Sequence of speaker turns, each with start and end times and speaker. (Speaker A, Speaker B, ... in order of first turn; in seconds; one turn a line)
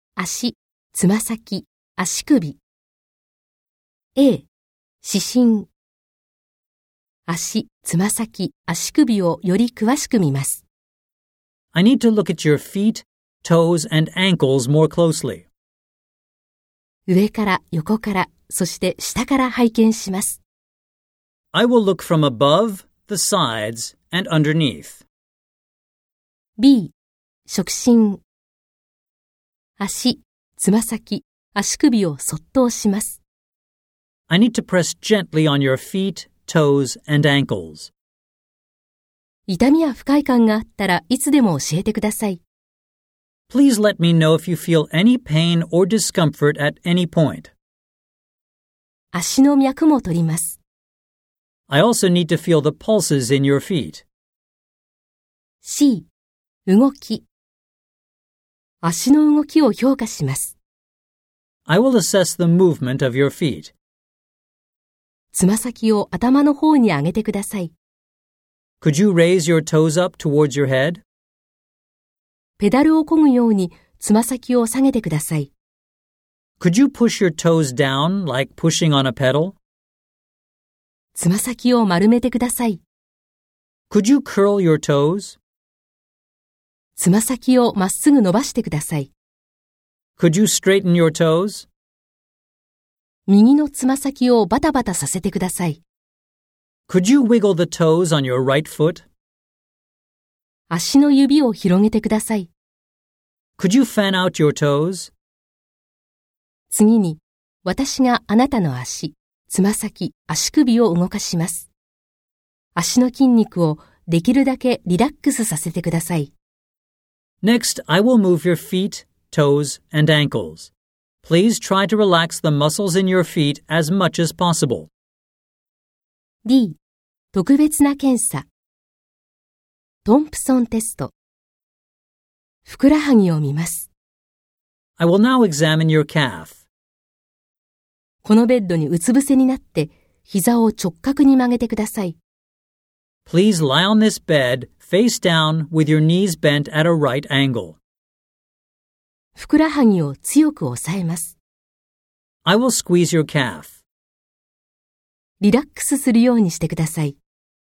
Speaker A: 0.2-2.6
Speaker A: 4.2-4.5
Speaker A: 5.0-5.7
Speaker A: 7.3-10.6
Speaker B: 11.7-15.5
Speaker A: 17.1-20.4
Speaker B: 21.5-25.0
Speaker A: 26.6-26.9
Speaker A: 27.4-28.2
Speaker A: 29.8-33.2
Speaker B: 34.3-37.9
Speaker A: 39.5-42.4
Speaker B: 43.5-47.5
Speaker A: 49.1-50.6
Speaker B: 51.7-54.0
Speaker A: 55.6-56.1
Speaker A: 56.6-57.2
Speaker A: 58.8-60.5
Speaker B: 61.7-63.7
Speaker A: 65.3-67.7
Speaker B: 68.8-71.0
Speaker A: 72.6-75.5
Speaker B: 76.6-79.6
Speaker A: 81.1-82.8
Speaker B: 83.9-85.4
Speaker A: 87.0-89.1
Speaker B: 90.2-91.7
Speaker A: 93.3-95.8
Speaker B: 96.9-99.0
Speaker A: 100.7-102.5
Speaker B: 103.6-105.1
Speaker A: 106.7-111.7
Speaker A: 112.8-116.3
Speaker B: 117.4-120.7
Speaker B: 121.2-124.9
Speaker A: 126.4-126.8
Speaker A: 127.3-128.5
Speaker A: 130.0-131.1
Speaker A: 132.6-133.9
Speaker B: 135.0-136.6
Speaker A: 138.2-142.2
Speaker B: 143.3-147.8
Speaker A: 149.3-151.3
Speaker B: 152.4-153.8
Speaker A: 155.4-157.2